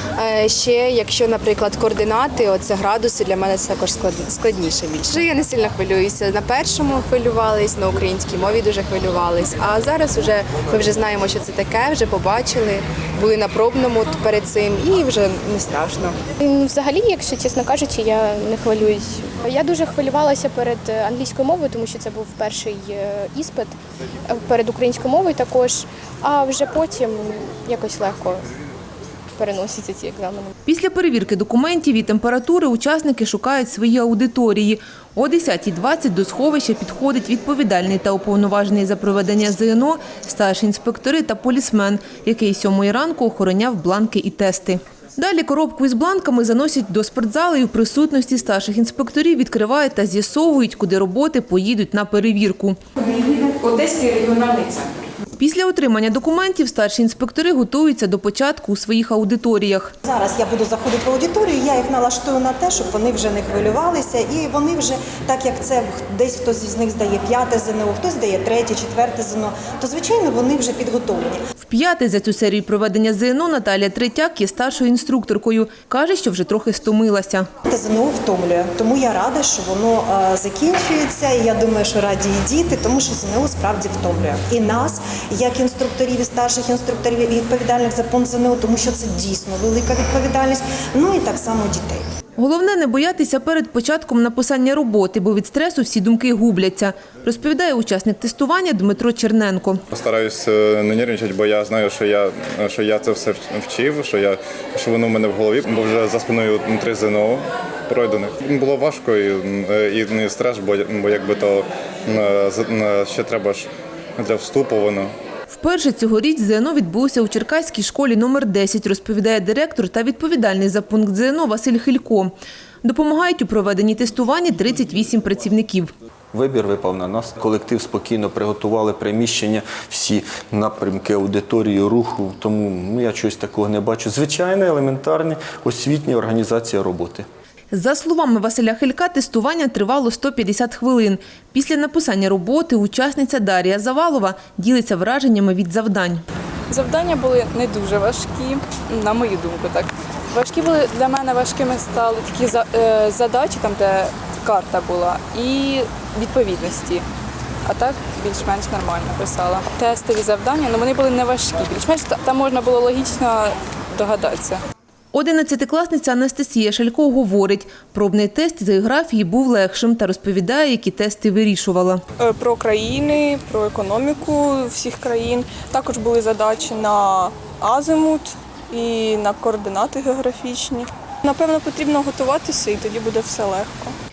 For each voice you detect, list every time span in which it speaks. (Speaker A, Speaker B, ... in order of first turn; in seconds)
Speaker A: 0.2-16.2
Speaker B: 16.4-28.5, 29.4-30.5
Speaker C: 30.7-52.8, 55.4-60.0, 71.6-77.5, 92.4-99.8, 115.5-122.3, 122.8-125.9, 137.7-146.2, 165.1-172.0
Speaker D: 53.0-54.9, 146.7-157.1, 157.7-164.6
Speaker E: 60.0-71.4, 77.7-92.1
Speaker F: 99.9-115.1
Speaker G: 126.3-137.3
Speaker H: 172.2-183.9